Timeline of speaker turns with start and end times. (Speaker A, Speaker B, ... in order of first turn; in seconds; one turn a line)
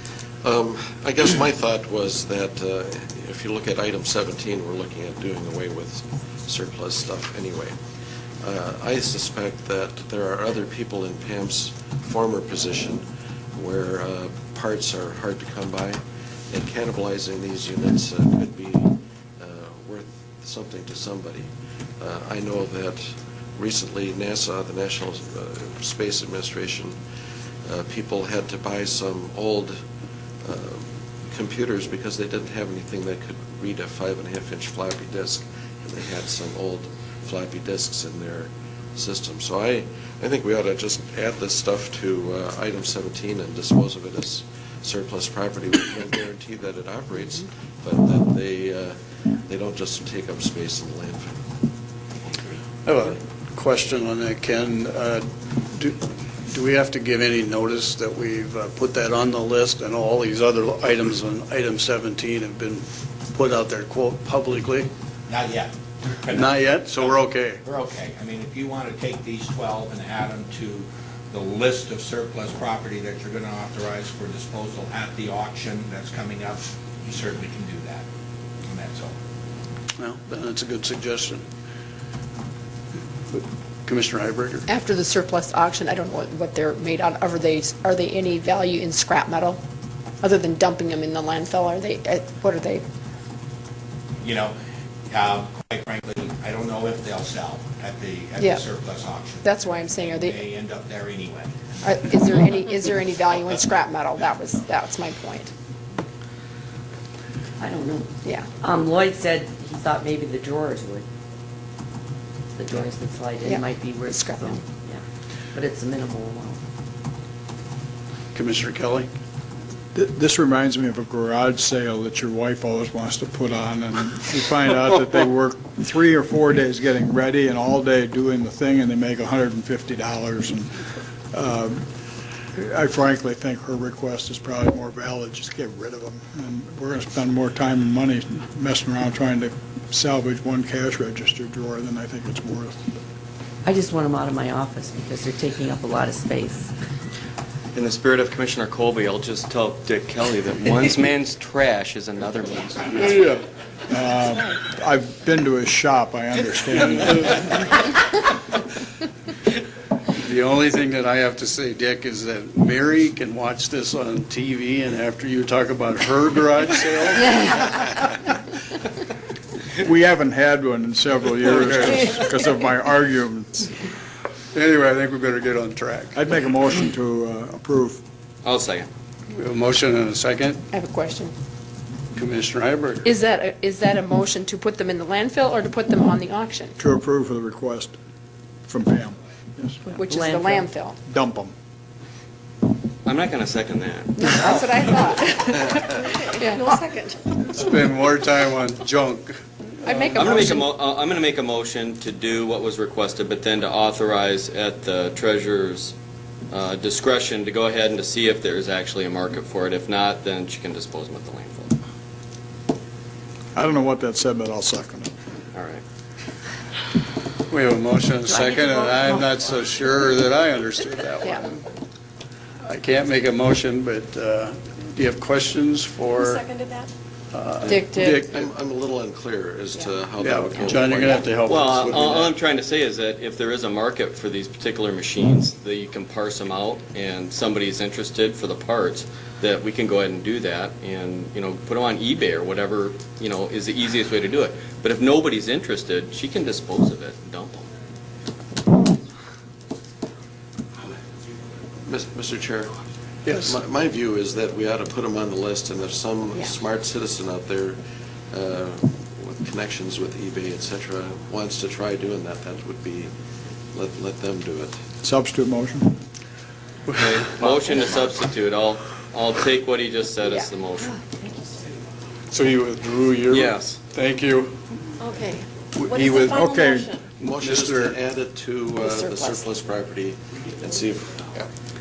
Speaker A: 0.4-7.7
Speaker A: 8.4-27.0
Speaker A: 27.6-29.8
Speaker A: 30.4-51.4
Speaker B: 52.8-64.9
Speaker C: 65.3-78.0
Speaker B: 66.3-67.6
Speaker C: 78.7-79.1
Speaker B: 80.0-81.4
Speaker B: 83.3-84.7
Speaker D: 84.7-89.6
Speaker D: 90.2-92.8
Speaker C: 94.2-94.5
Speaker C: 95.1-102.1
Speaker D: 98.4-98.7
Speaker D: 99.4-100.5
Speaker D: 101.8-105.5
Speaker E: 107.6-111.0
Speaker D: 108.2-108.5
Speaker E: 112.5-116.6
Speaker D: 113.4-114.6
Speaker B: 118.3-119.1
Speaker F: 119.9-130.8
Speaker F: 131.3-131.8
Speaker F: 132.5-142.8
Speaker E: 143.6-146.7
Speaker G: 147.7-153.2
Speaker B: 153.0-153.4
Speaker F: 153.9-157.6
Speaker B: 160.2-167.8
Speaker F: 169.8-173.7
Speaker B: 171.5-172.0
Speaker B: 174.5-176.2
Speaker F: 176.1-178.0
Speaker G: 178.4-178.9
Speaker B: 179.3-180.6
Speaker D: 180.7-181.3
Speaker B: 182.1-183.1
Speaker D: 183.0-186.7
Speaker F: 186.8-187.9
Speaker F: 188.7-189.8
Speaker E: 189.8-190.7
Speaker D: 189.9-191.0
Speaker F: 191.0-191.5
Speaker G: 193.0-194.6
Speaker D: 194.2-196.8
Speaker B: 197.4-200.6
Speaker D: 199.8-200.6
Speaker G: 200.1-205.9
Speaker G: 206.5-211.7
Speaker F: 213.5-215.1
Speaker G: 215.5-215.8
Speaker B: 217.5-221.7
Speaker E: 218.3-219.3
Speaker B: 222.7-226.4
Speaker H: 226.3-226.8
Speaker B: 227.3-228.4
Speaker D: 227.7-228.2
Speaker A: 228.3-232.3
Speaker B: 230.2-232.3
Speaker G: 231.4-247.7
Speaker A: 251.8-252.7
Speaker B: 253.2-253.6
Speaker A: 253.3-257.8
Speaker A: 258.3-263.1
Speaker A: 263.7-264.8
Speaker F: 265.0-265.9
Speaker B: 266.9-267.6
Speaker G: 266.9-270.9
Speaker D: 270.2-270.5
Speaker E: 270.9-271.3
Speaker B: 272.3-274.6
Speaker G: 273.3-273.8
Speaker H: 275.0-276.9
Speaker B: 275.7-276.4
Speaker F: 276.2-276.9
Speaker A: 277.2-281.3
Speaker B: 277.2-278.0
Speaker D: 278.8-279.4